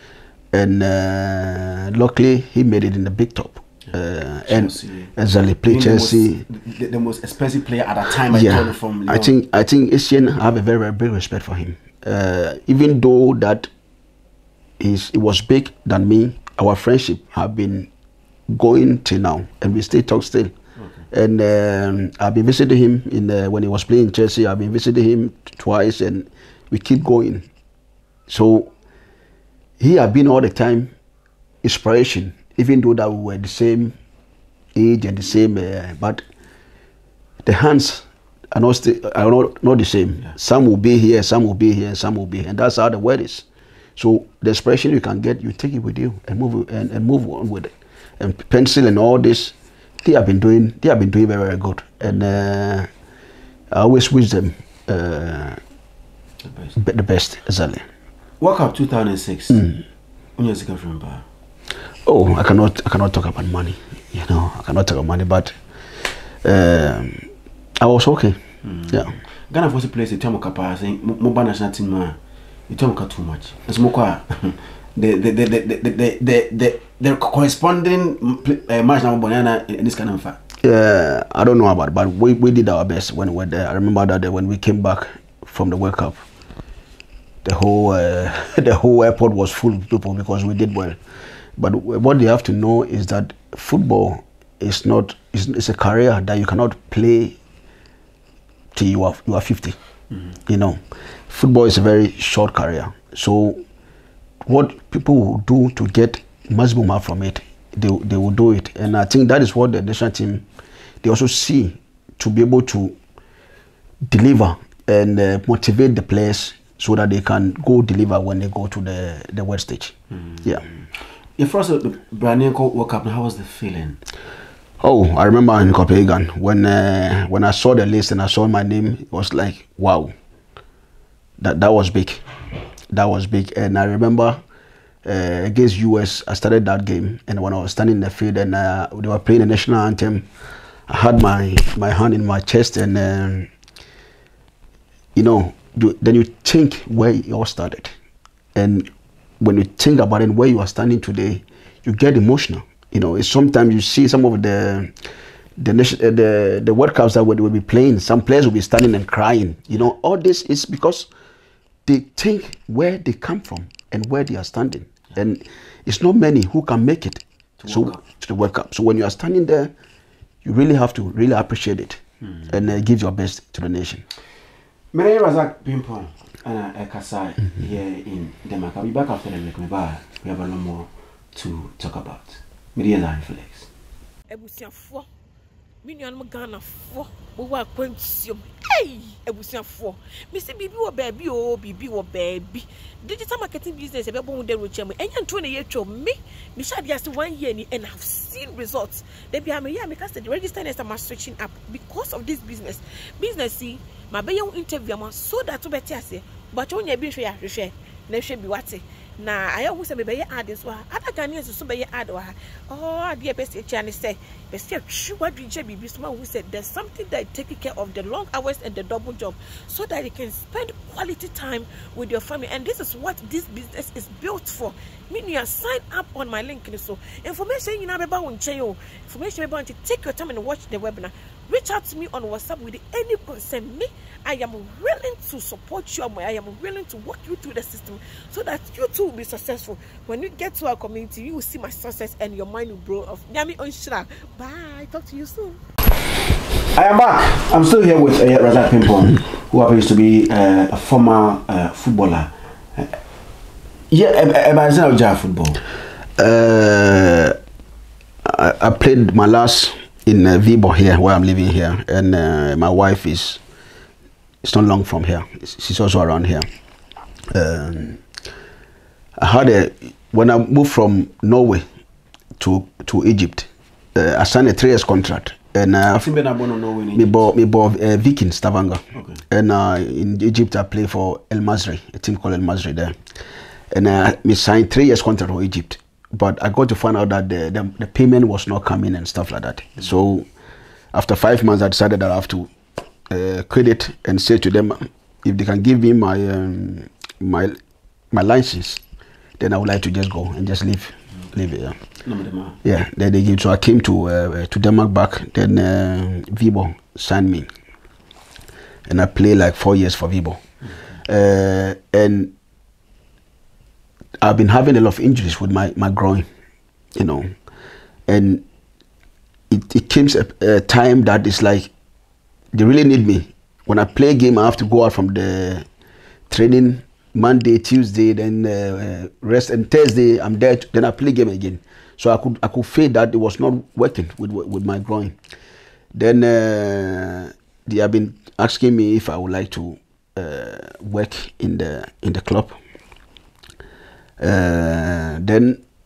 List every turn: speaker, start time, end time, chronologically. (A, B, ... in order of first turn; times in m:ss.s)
0:00.5-0:06.4 A
0:04.5-0:05.1 B
0:05.6-0:09.3 B
0:08.3-0:13.7 A
0:14.8-0:17.9 A
0:18.5-0:20.5 A
0:21.1-0:27.5 A
0:28.3-0:28.7 A
0:29.8-0:30.9 A
0:31.6-0:34.0 A
0:34.7-0:36.2 A
0:37.4-0:52.9 A
0:53.7-0:55.6 A
0:56.4-0:56.7 B
0:56.8-0:57.8 A
0:58.4-0:59.7 B
0:59.5-0:59.8 A
1:00.4-1:01.2 B
1:02.0-1:05.6 A
1:06.4-1:07.3 A
1:07.8-1:09.1 A
1:08.6-1:12.2 B
1:12.7-1:20.4 B
1:20.6-1:26.2 A
1:27.4-1:31.0 A
1:31.6-1:37.4 A
1:38.7-1:39.8 A
1:40.5-1:43.6 A
1:44.4-1:50.4 A
1:51.0-1:52.9 A
1:54.1-2:00.6 A
2:00.1-2:00.5 B
2:01.4-2:04.0 B
2:04.8-2:10.1 A
2:11.4-2:12.2 A
2:12.9-2:14.4 A
2:15.0-2:20.2 A
2:20.9-2:23.5 A
2:25.1-2:27.9 A
2:28.6-2:28.9 A
2:29.4-2:34.9 A
2:35.6-2:41.1 A
2:41.8-2:49.7 A
2:47.6-2:48.0 B
2:50.4-2:54.0 A
2:54.9-3:03.7 B
3:04.3-3:05.1 C
3:05.8-4:05.6 C
4:06.7-4:13.0 B
4:13.9-4:15.6 B
4:16.2-4:17.4 A
4:18.2-4:23.4 A
4:24.4-4:26.5 A
4:27.3-4:28.0 A
4:29.2-4:31.6 A
4:32.4-4:36.1 A
4:35.9-4:37.2 B
4:36.9-4:42.9 A
4:38.9-4:39.2 B
4:43.7-4:50.3 A
4:50.9-4:52.5 A
4:53.1-4:57.6 A
4:58.1-4:58.8 A
4:59.4-5:01.8 A
5:02.0-5:02.6 B
5:02.6-5:07.5 A
5:08.9-5:10.4 A
5:11.1-5:12.3 A
5:14.2-5:16.3 A
5:17.0-5:17.3 A
5:18.1-5:18.4 A
5:19.5-5:21.7 A
5:22.5-5:25.6 A
5:26.3-5:35.2 A
5:35.9-5:42.6 A
5:44.2-5:45.6 A